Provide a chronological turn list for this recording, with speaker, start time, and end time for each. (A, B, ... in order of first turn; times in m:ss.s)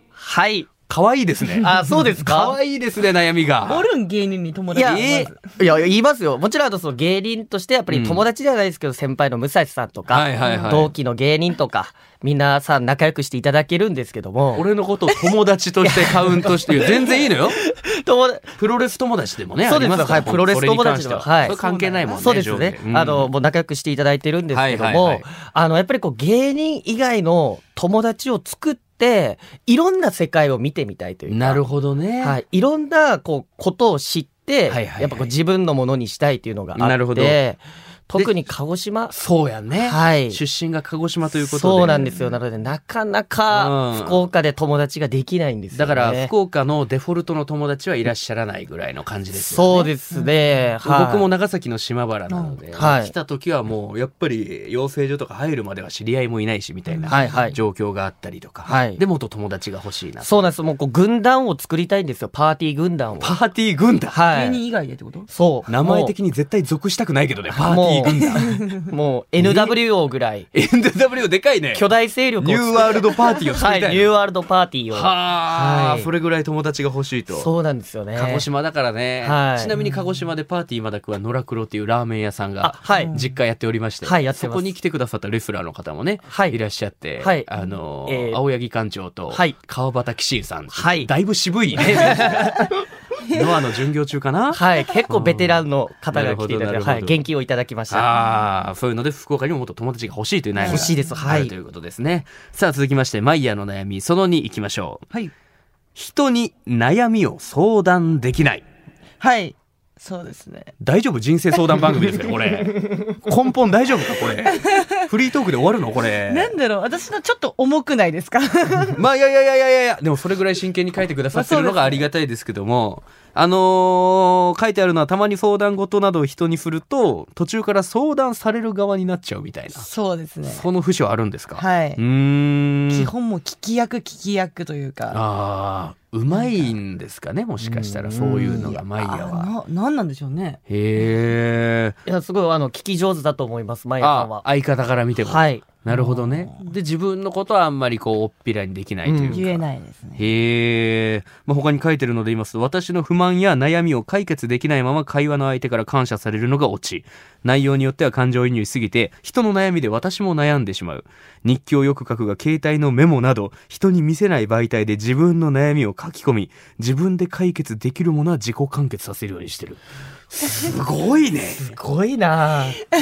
0:00.2-0:00.7 A
0:00.9-0:03.8 B
0:01.6-0:02.6 A
0:03.6-0:05.5 C
0:04.7-0:14.7 A
0:04.8-0:05.3 B
0:07.9-0:08.2 B
0:10.1-0:10.9 B
0:10.4-0:10.8 C
0:14.6-0:17.6 B
0:15.8-0:18.5 A
0:18.6-0:23.3 B
0:19.6-0:21.6 A
0:21.4-0:22.5 C
0:22.1-0:31.6 A
0:24.5-0:25.3 B
0:31.3-0:32.4 B
0:32.2-0:39.1 A
0:34.7-0:35.3 B
0:36.8-0:37.4 B
0:39.1-0:42.1 B
0:39.8-0:40.4 A
0:41.4-0:46.3 A
0:41.9-0:42.4 C
0:43.5-0:44.2 B
0:45.7-0:49.9 B
0:49.4-0:51.3 A
0:49.9-0:50.4 C
0:50.8-1:00.5 B
0:52.3-0:52.6 C
0:52.8-0:53.1 A
0:56.9-0:57.6 C
0:57.1-0:57.6 A
0:58.7-0:59.0 A
1:00.2-1:03.4 A
1:03.2-1:04.2 B
1:04.1-1:04.6 A
1:04.3-1:05.3 C
1:05.3-1:06.1 A
1:05.7-1:08.7 B
1:07.5-1:10.5 A
1:08.1-1:08.8 C
1:09.4-1:09.8 B
1:10.5-1:11.9 B
1:11.7-1:16.1 A
1:12.4-1:14.1 B
1:14.9-1:17.5 B
1:17.3-1:18.5 A
1:18.1-1:32.7 B
1:19.2-1:19.7 A
1:22.6-1:23.2 A
1:22.9-1:23.2 C
1:24.0-1:24.7 A
1:26.3-1:26.6 A
1:27.2-1:27.5 A
1:28.0-1:28.4 A
1:29.3-1:29.6 A
1:30.7-1:31.1 A
1:31.8-1:32.6 A
1:33.2-1:37.2 B
1:34.5-1:38.1 A
1:37.9-1:45.1 B
1:40.6-1:41.3 C
1:40.6-1:41.5 A
1:46.0-1:48.6 B
1:49.2-1:50.7 C
1:50.8-1:56.5 B
1:54.5-1:54.9 C
1:56.3-1:59.0 C
1:59.0-2:09.9 B
2:01.3-2:02.0 C
2:09.8-2:10.7 C
2:10.5-2:13.1 B
2:11.6-2:12.0 C
2:12.9-2:15.2 C
2:15.1-2:19.5 B
2:16.3-2:16.7 C
2:17.6-2:18.8 A
2:18.3-2:20.6 C
2:20.7-2:22.0 B
2:22.0-2:24.4 A
2:24.0-2:29.6 B
2:25.2-2:25.7 A
2:25.9-2:26.7 C
2:29.0-2:29.4 A
2:29.3-2:30.3 C
2:30.2-2:51.7 B
2:51.5-2:52.8 A